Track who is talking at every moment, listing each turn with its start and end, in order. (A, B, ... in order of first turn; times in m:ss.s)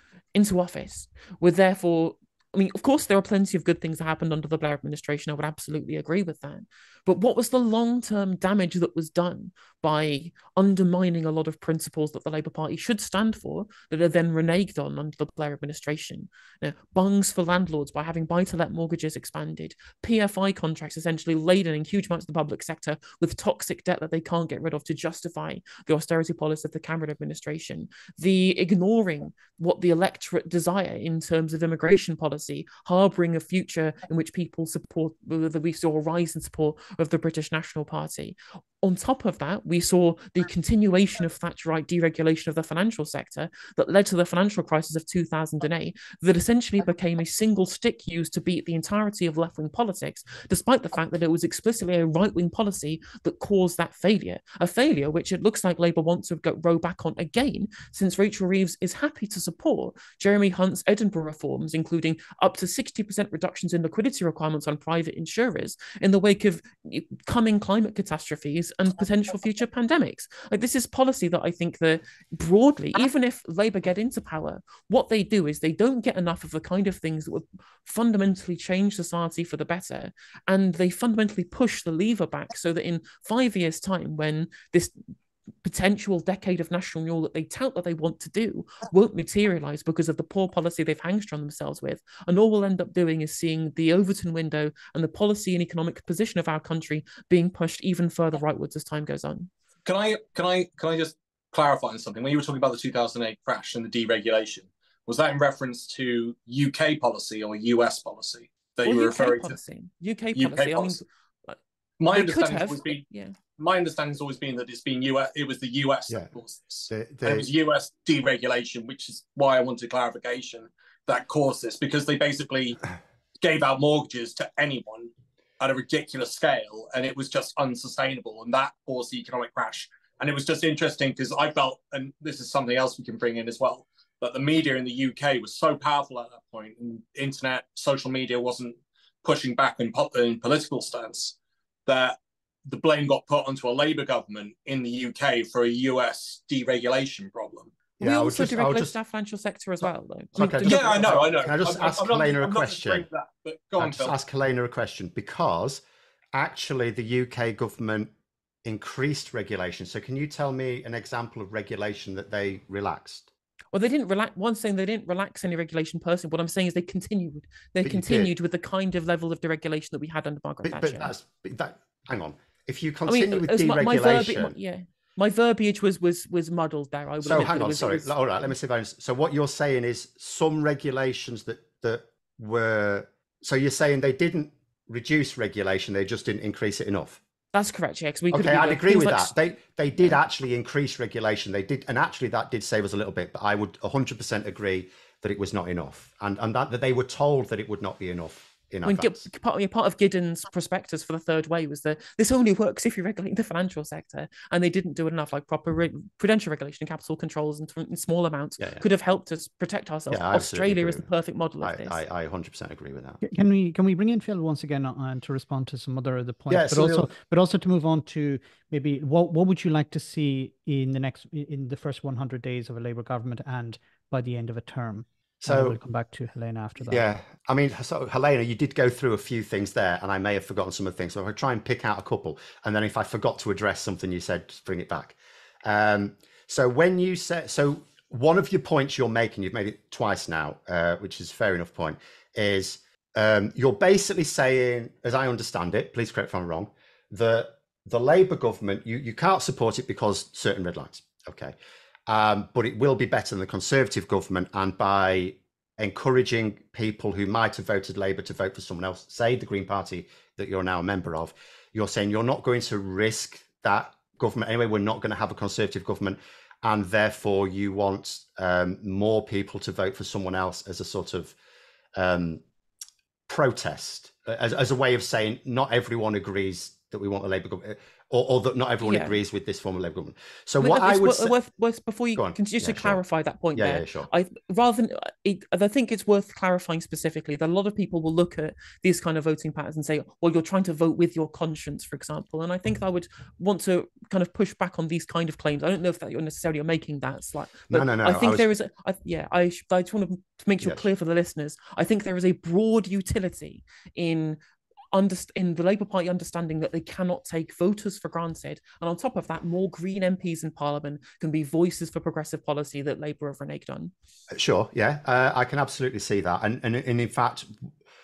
0:00.4-1:24.9 A
1:25.6-1:39.5 A
1:39.8-1:49.6 B
1:48.8-1:51.6 A
1:50.4-1:51.0 B
1:52.0-1:53.0 B
1:52.1-1:53.4 A
1:53.6-2:02.8 B
1:56.9-1:57.5 C
2:03.4-2:21.4 B
2:21.9-2:27.7 B
2:28.0-2:28.9 C
2:28.0-2:31.3 A
2:30.4-2:33.1 C
2:30.6-2:34.2 B
2:33.8-2:35.8 C
2:36.3-2:38.1 C
2:38.6-2:43.3 C
2:43.7-2:51.1 A
2:47.8-2:48.3 C
2:50.6-2:54.6 C
2:53.1-2:58.1 A
2:57.2-3:07.2 C
3:07.5-3:09.3 A
3:08.3-3:19.3 C
3:18.8-3:32.0 A
3:28.6-3:28.8 C
3:30.1-3:33.2 C
3:33.2-3:47.0 D
3:36.5-3:37.1 C
3:45.4-3:45.8 C
3:46.9-4:11.6 C
4:12.1-4:31.4 C
4:32.0-4:32.4 C
4:33.3-4:41.4 C
4:38.8-4:39.2 A
4:40.6-5:04.4 A
4:42.2-4:43.0 C
4:43.6-4:44.1 C
4:57.7-4:58.5 C
5:04.9-5:13.9 A
5:14.3-5:17.6 C